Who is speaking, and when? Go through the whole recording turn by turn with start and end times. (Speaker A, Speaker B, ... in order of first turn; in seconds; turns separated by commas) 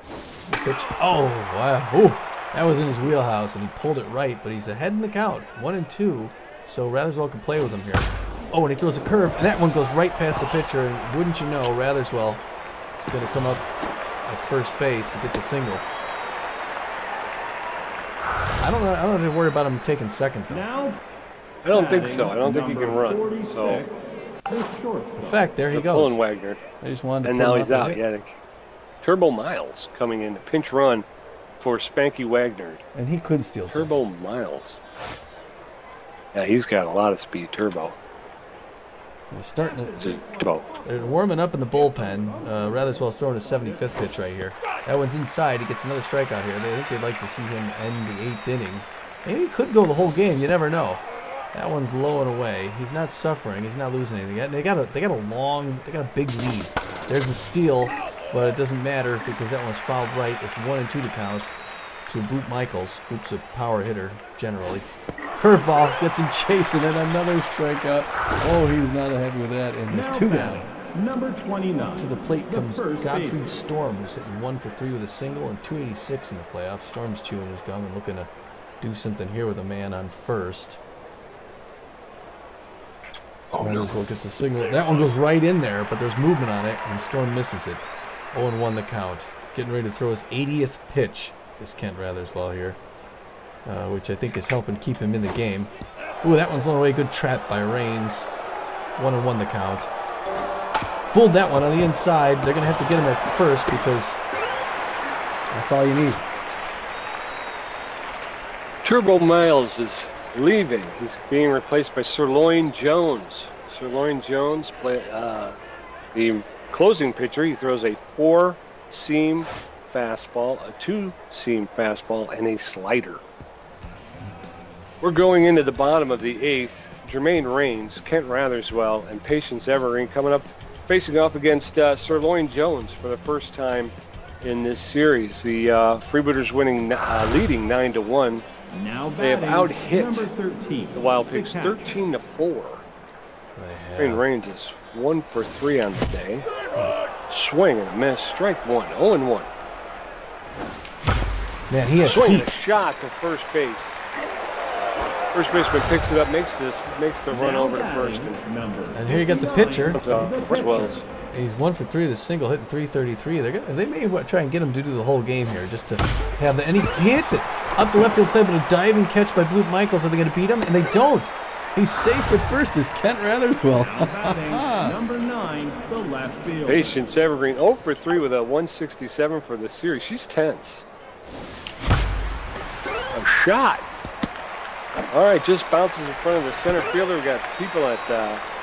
Speaker A: 0.5-12.4, Speaker A: 13.0-13.7, Speaker A: 14.2-15.8, Speaker A: 18.6-20.7, Speaker B: 20.5-21.0, Speaker C: 21.6-23.8, Speaker B: 21.7-25.5, Speaker A: 25.2-26.2, Speaker C: 25.7-26.6, Speaker A: 26.8-28.0, Speaker C: 27.2-28.4, Speaker C: 29.0-31.1, Speaker C: 31.6-32.8, Speaker A: 33.0-33.9, Speaker C: 33.7-34.8, Speaker C: 36.3-38.0, Speaker A: 39.3-40.2, Speaker B: 39.6-44.1, Speaker C: 40.0-40.7, Speaker A: 40.8-61.5, Speaker A: 62.1-70.7, Speaker B: 69.9-73.6, Speaker A: 71.7-80.8, Speaker C: 83.5-83.9, Speaker A: 83.6-92.8, Speaker A: 93.7-95.7, Speaker A: 96.2-98.3, Speaker A: 99.0-99.9, Speaker A: 101.1-104.2, Speaker A: 105.5-106.2, Speaker C: 108.8-115.6, Speaker C: 116.2-123.2, Speaker C: 125.0-138.5, Speaker B: 138.7-142.0, Speaker C: 139.2-140.3, Speaker C: 140.9-142.8, Speaker A: 143.6-144.3, Speaker C: 144.0-146.5, Speaker C: 147.3-149.5, Speaker A: 151.7-152.5, Speaker C: 152.0-154.0, Speaker C: 155.3-158.4, Speaker B: 157.3-161.0, Speaker A: 158.9-160.2, Speaker C: 159.9-161.0, Speaker A: 161.3-175.0, Speaker B: 173.8-177.0, Speaker C: 176.7-180.9, Speaker C: 183.1-183.8, Speaker C: 185.1-188.4